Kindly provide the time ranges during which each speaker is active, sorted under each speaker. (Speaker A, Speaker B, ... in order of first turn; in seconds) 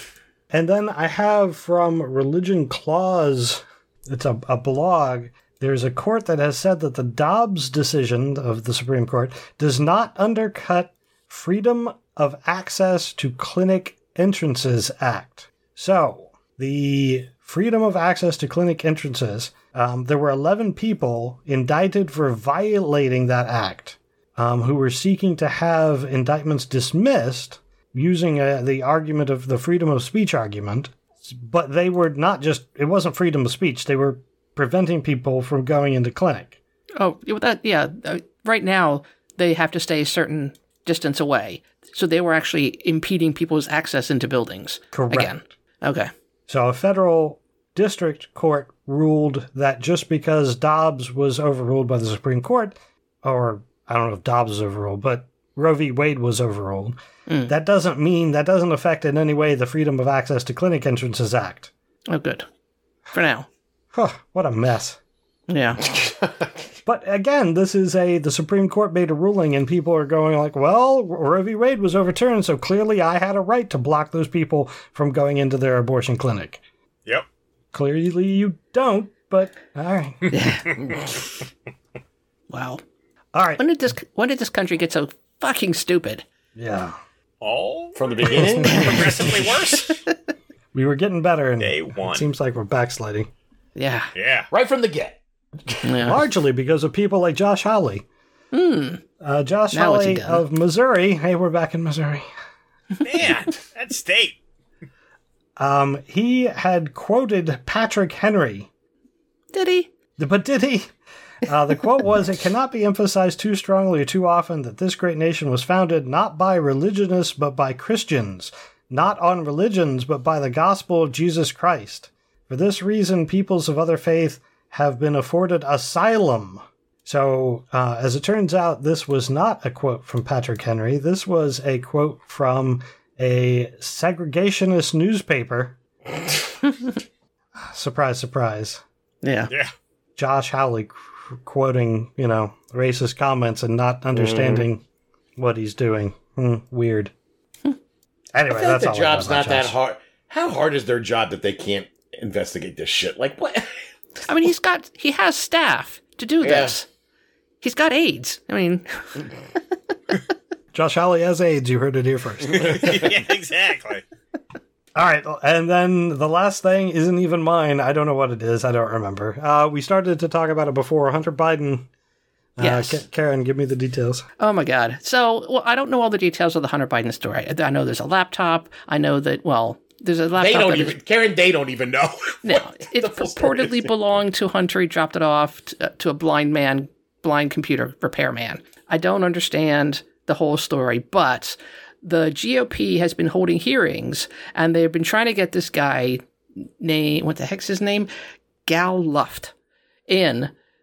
Speaker A: 0.5-36.6, 44.9-45.3, 46.5-61.7, 63.9-65.0, 66.9-76.6, 77.7-80.3, 83.3-83.6, 86.6-87.0, 88.2-89.3, 90.7-93.3, 96.0-98.0, 99.2-102.3, 105.6-108.7, 110.2-110.9, 111.4-135.8, 137.6-138.8, 140.2-144.8, 145.4-147.1, 148.3-149.7, 160.7-163.1, 164.9-171.9, 172.6-174.2
Speaker B: 37.0-46.1, 57.3-57.5, 62.1-62.5, 63.1-63.5, 65.5-65.8, 80.3-80.7, 82.5-82.8, 83.6-86.2, 88.7-89.0, 93.8-94.1, 95.8-96.2, 98.5-99.0, 99.7-100.4, 109.5-109.9, 139.2-139.5, 154.3-156.8, 157.6-159.3, 172.6-173.0, 174.4-181.0, 182.4-196.2, 196.8-198.1, 198.7-199.5, 200.1-200.5
Speaker C: 65.8-66.6, 88.0-89.3, 94.5-96.0, 144.1-144.7, 148.5-153.7, 156.4-156.8, 180.4-183.9
Speaker D: 87.4-90.0, 91.6-92.3, 94.2-94.5, 103.0-104.4, 162.5-164.0